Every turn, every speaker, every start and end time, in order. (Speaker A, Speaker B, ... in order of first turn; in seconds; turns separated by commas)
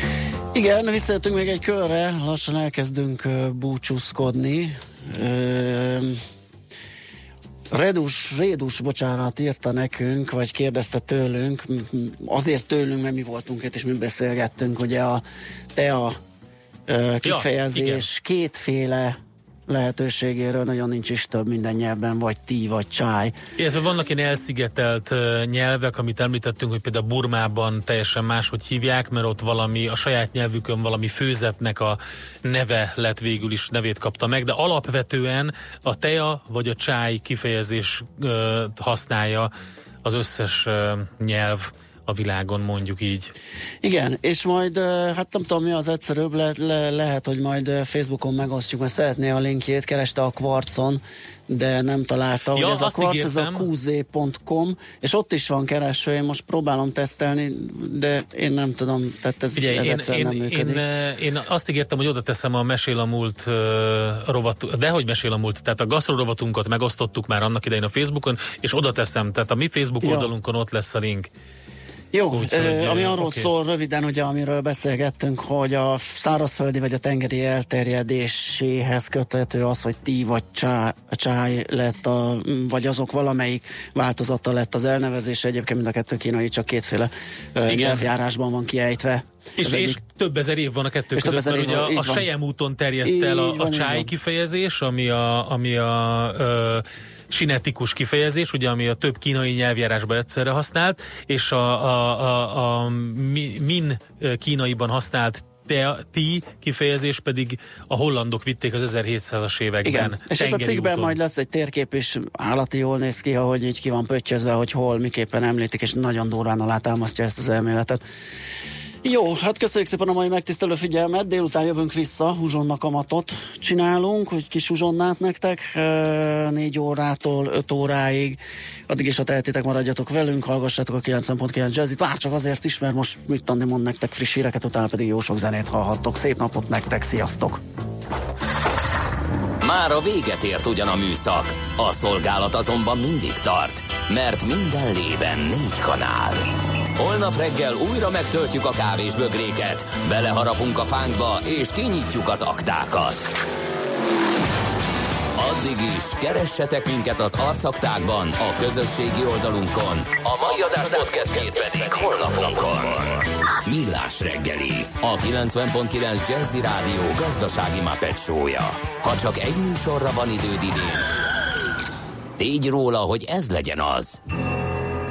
Speaker A: 0.5-6.2, Speaker A: 7.7-15.2, Speaker A: 15.8-16.2, Speaker A: 16.9-23.4, Speaker B: 17.2-18.1, Speaker B: 23.6-39.5, Speaker B: 40.0-43.3, Speaker A: 43.8-60.8, Speaker B: 52.5-53.6, Speaker B: 59.6-71.3, Speaker A: 70.0-70.3, Speaker A: 72.1-90.0, Speaker B: 72.3-73.5, Speaker B: 87.7-88.0, Speaker B: 89.6-111.2, Speaker A: 91.2-92.3, Speaker A: 93.0-94.1, Speaker A: 109.8-118.0, Speaker A: 119.0-137.6, Speaker C: 139.6-153.3, Speaker C: 155.4-171.1, Speaker C: 172.4-174.2